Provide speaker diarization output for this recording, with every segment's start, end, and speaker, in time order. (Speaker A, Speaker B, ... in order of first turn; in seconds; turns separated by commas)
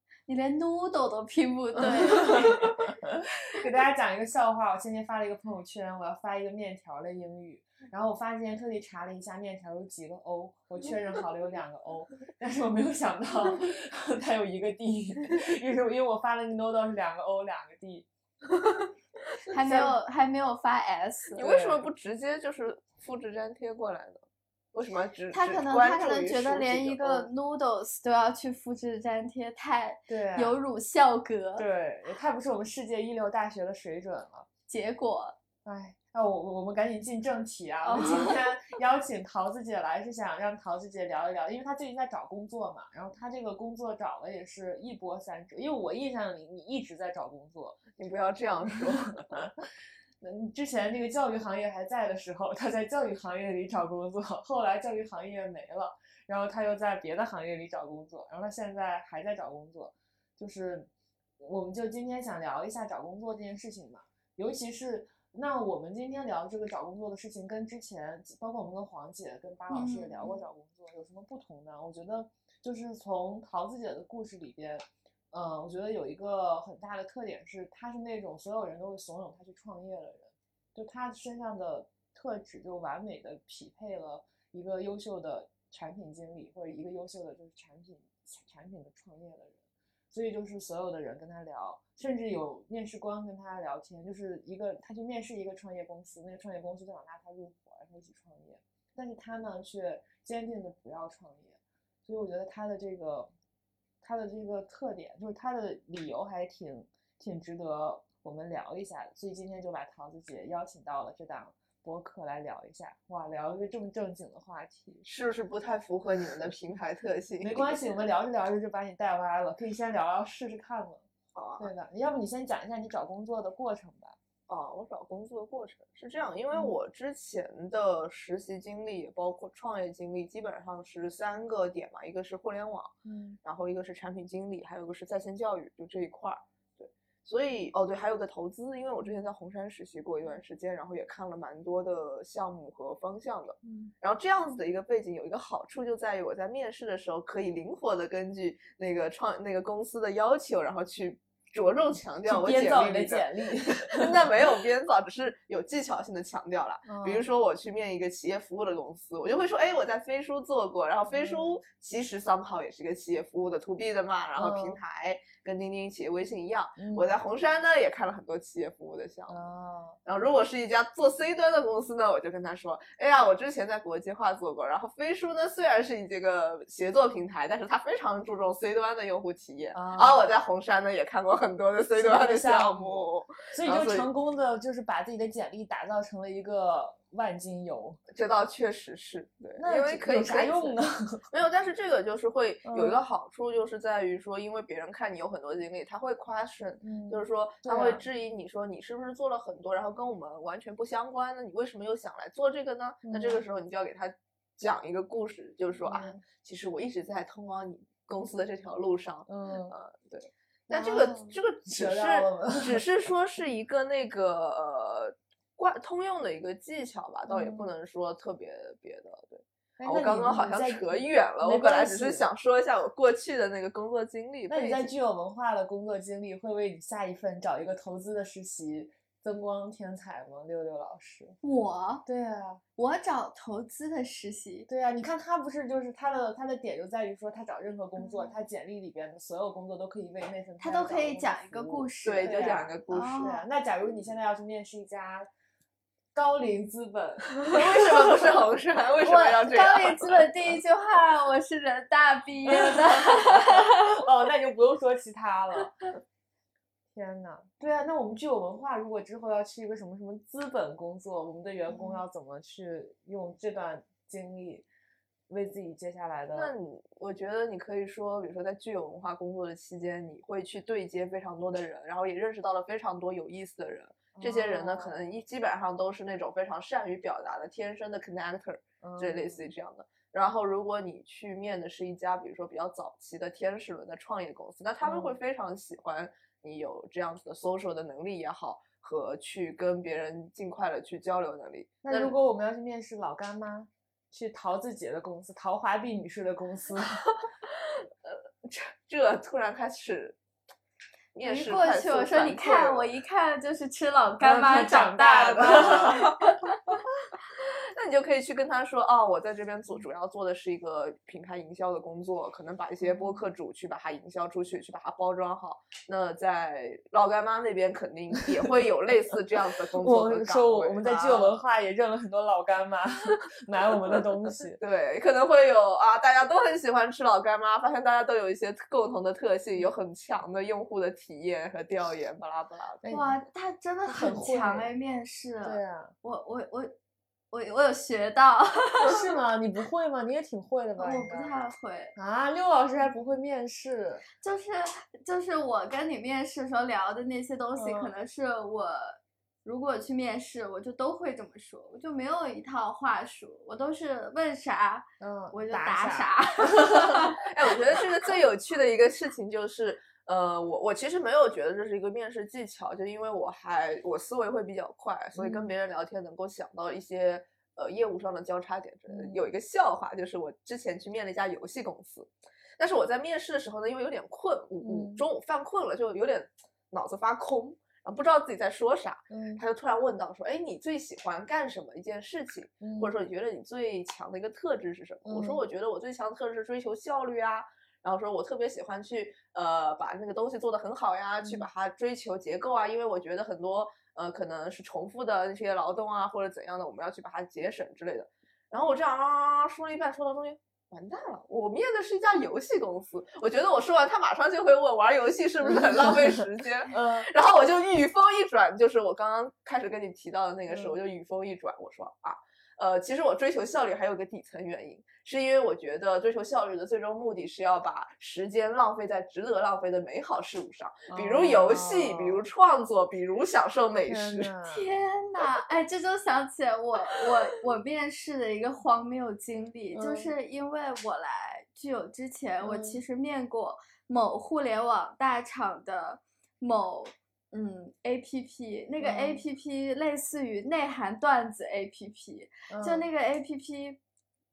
Speaker A: 0.3-2.8, Speaker B: 1.8-2.5, Speaker C: 1.8-18.1, Speaker A: 19.5-21.4, Speaker B: 19.6-19.9, Speaker B: 21.3-27.3, Speaker C: 21.4-21.8, Speaker A: 25.3-31.6, Speaker C: 30.1-30.6, Speaker C: 31.6-34.5, Speaker A: 34.7-35.4, Speaker C: 35.6-47.8, Speaker A: 37.8-38.5, Speaker B: 48.0-49.3, Speaker C: 50.2-60.9, Speaker C: 61.4-103.3, Speaker A: 69.7-70.4, Speaker C: 104.0-115.0, Speaker B: 115.0-118.0, Speaker C: 117.4-121.0, Speaker B: 121.3-121.7, Speaker C: 121.6-124.2, Speaker B: 124.5-169.4, Speaker C: 133.0-133.4, Speaker C: 143.6-143.9, Speaker C: 152.2-154.2, Speaker C: 156.8-157.2, Speaker C: 161.1-161.6, Speaker C: 164.3-164.8, Speaker C: 166.8-167.1, Speaker C: 169.3-170.0, Speaker B: 170.0-184.1, Speaker C: 179.7-180.3, Speaker C: 182.0-188.0, Speaker B: 188.1-224.9, Speaker C: 189.6-191.2, Speaker C: 192.7-193.0, Speaker C: 196.8-198.0, Speaker C: 203.0-203.4, Speaker C: 205.8-206.2, Speaker C: 209.3-209.7, Speaker C: 210.7-212.9, Speaker C: 217.3-217.7, Speaker C: 219.8-222.3, Speaker C: 224.5-231.4, Speaker A: 231.4-232.0, Speaker C: 232.0-232.6, Speaker A: 232.8-234.7, Speaker C: 234.7-245.3, Speaker A: 238.0-238.3, Speaker A: 240.6-243.4, Speaker B: 242.0-243.3, Speaker C: 246.2-248.2, Speaker B: 247.5-250.3, Speaker A: 249.0-253.8, Speaker C: 252.5-255.7, Speaker C: 256.9-264.7, Speaker A: 261.7-262.0, Speaker C: 265.3-266.5, Speaker B: 266.3-292.1, Speaker C: 274.1-275.1, Speaker C: 278.8-279.4, Speaker C: 284.8-285.1, Speaker C: 291.8-297.0, Speaker B: 297.6-300.2, Speaker B: 301.1-302.9, Speaker A: 301.2-305.9, Speaker C: 304.2-306.1, Speaker B: 305.1-306.3, Speaker B: 307.4-321.4, Speaker C: 312.9-313.2, Speaker C: 319.8-324.6, Speaker B: 324.6-332.9, Speaker C: 332.8-333.2, Speaker A: 332.9-336.7, Speaker C: 333.9-334.7, Speaker C: 335.4-335.9, Speaker A: 337.3-339.0, Speaker C: 338.8-341.3, Speaker A: 340.8-341.9, Speaker C: 341.9-344.0, Speaker A: 344.2-357.2, Speaker C: 347.5-347.9, Speaker C: 355.0-357.1, Speaker B: 357.2-424.3, Speaker C: 365.1-365.5, Speaker C: 368.9-369.2, Speaker C: 374.6-375.0, Speaker C: 379.1-379.4, Speaker C: 382.6-382.9, Speaker C: 385.0-385.4, Speaker C: 405.4-407.1, Speaker C: 410.5-410.8, Speaker C: 420.9-422.2, Speaker C: 423.9-424.6, Speaker A: 424.5-443.8, Speaker C: 429.7-430.1, Speaker C: 432.4-432.8, Speaker C: 438.8-439.2, Speaker C: 442.5-442.9